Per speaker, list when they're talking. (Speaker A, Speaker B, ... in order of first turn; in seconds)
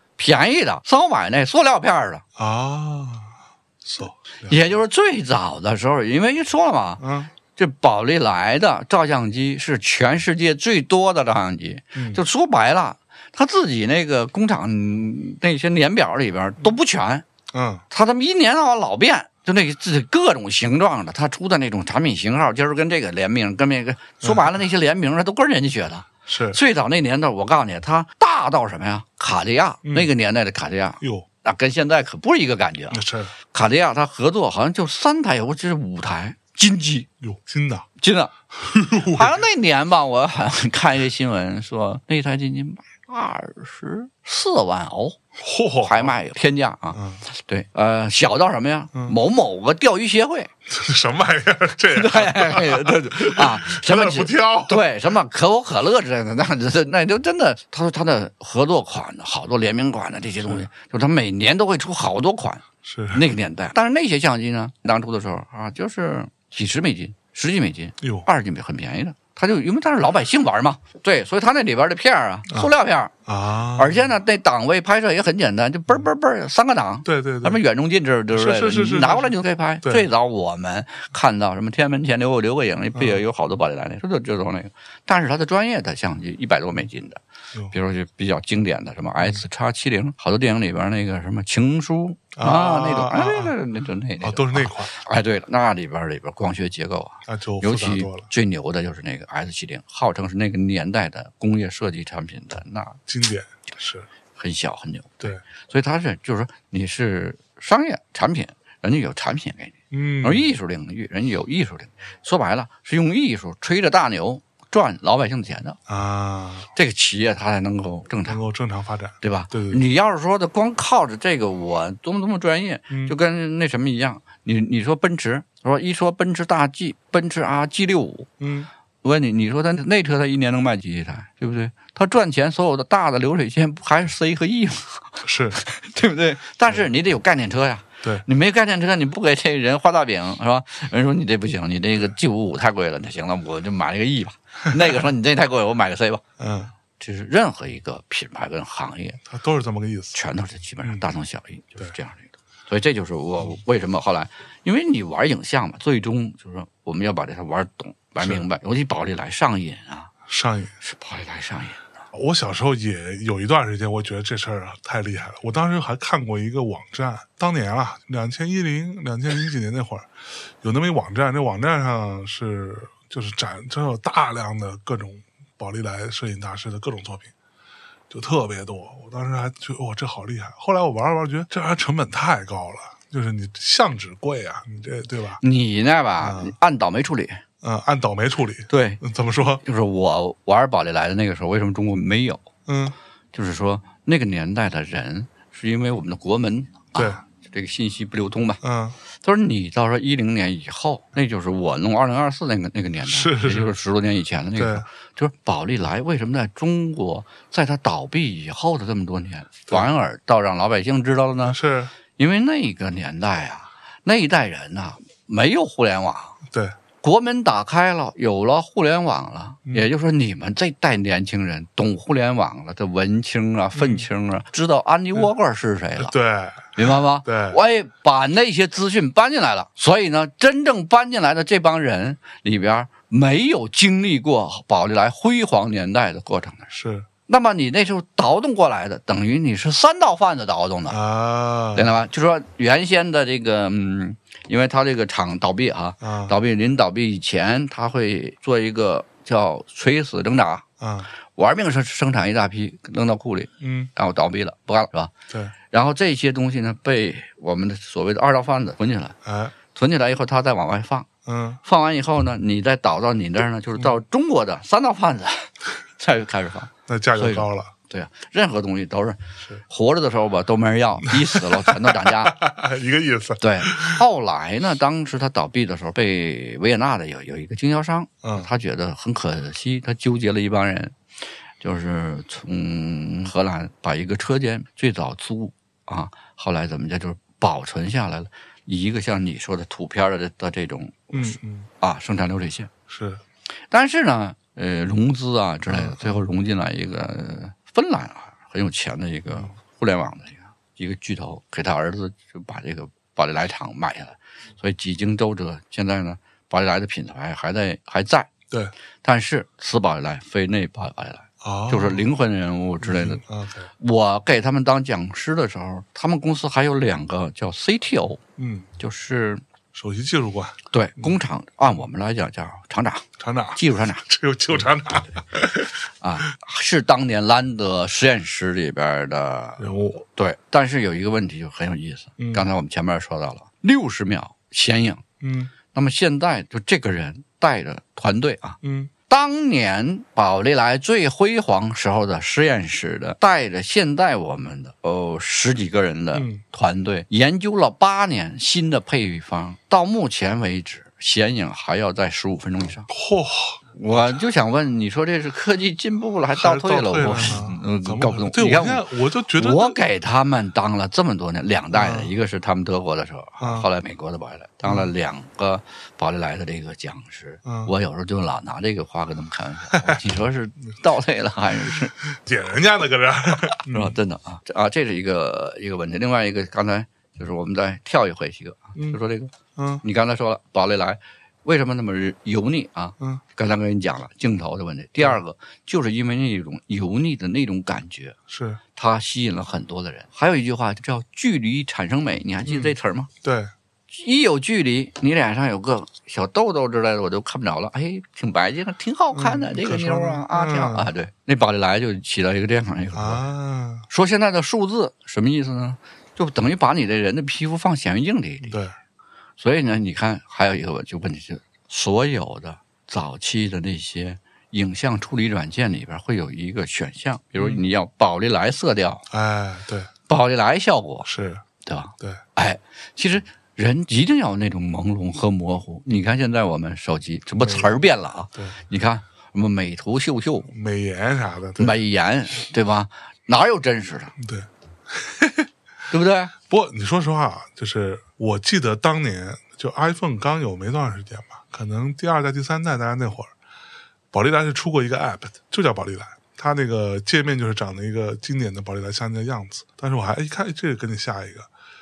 Speaker A: 0.2-2.2, 4.5-17.2, 17.9-37.1, 38.0-38.3, 39.0-45.2, 45.8-50.5, 51.9-73.1, 73.8-103.0, 104.4-115.8, 116.8-118.4, 119.2-128.3, 129.0-146.2, 147.0-149.2, 150.1-160.1, 160.8-161.9, 185.4-187.4, 188.7-189.0, 189.6-192.5, 193.3-198.6, 199.2-211.6, 212.2-216.4, 217.0-226.1, 226.8-236.7, 237.3-241.0, 241.7-250.7, 251.3-255.1, 255.7-259.2, 259.7-261.1, 261.6-272.4, 273.4-281.0, 281.6-292.7, 293.7-308.3, 309.0-313.2, 313.8-318.2, 318.8-319.4, 320.7-324.0, 326.0-335.1, 335.7-352.9, 353.7-372.0, 373.7-388.2, 388.8-393.1, 393.9-403.3, 403.9-408.6, 409.4-419.1, 420.1-421.1, 421.6-430.5, 431.6-434.1, 435.9-436.3
Speaker B: 2.4-4.6, 7.0-7.3, 11.9-12.2, 17.5-17.9, 24.2-24.5, 26.3-26.6, 29.9-30.1, 31.0-31.3, 32.9-33.3, 37.2-37.9, 38.5-39.4, 45.4-46.2, 46.9-47.2, 50.7-54.9, 62.8-63.3, 68.0-68.3, 73.3-74.1, 77.0-77.6, 78.3-80.1, 83.0-83.2, 92.4-93.5, 94.2-95.0, 97.3-98.3, 103.1-104.1, 109.9-110.5, 115.9-116.7, 118.3-119.8, 122.9-123.2, 128.4-128.7, 135.2-135.6, 146.4-146.7, 149.3-150.2, 150.8-151.1, 158.2-158.4, 160.3-160.8, 162.1-177.3, 178.1-185.4, 186.2-186.6, 187.6-189.6, 192.7-193.0, 196.9-197.2, 198.6-199.0, 203.1-203.8, 204.6-204.9, 211.4-211.9, 216.5-216.8, 223.8-224.1, 226.0-227.6, 236.7-237.1, 240.9-241.9, 246.0-246.3, 250.8-251.1, 253.6-253.9, 259.2-259.6, 261.3-261.6, 266.9-267.7, 271.1-274.0, 278.2-278.5, 291.1-291.7, 292.9-293.2, 295.7-296.2, 311.4-312.1, 312.8-313.7, 318.4-318.7, 319.7-321.1, 323.2-325.9, 329.6-330.0, 332.2-332.5, 335.2-335.5, 338.6-338.9, 346.1-346.4, 352.9-354.2, 356.3-359.8, 361.7-362.1, 363.4-363.7, 364.6-364.9, 367.4-367.7, 369.7-370.0, 371.7-374.0, 379.6-379.8, 388.3-388.6, 392.5-393.5, 399.1-400.9, 402.9-403.9, 408.4-408.8, 417.4-417.6, 419.1-419.9, 421.1-421.4, 427.4-427.8, 430.5-431.8, 434.2-435.5, 436.4-443.3, 444.1-451.5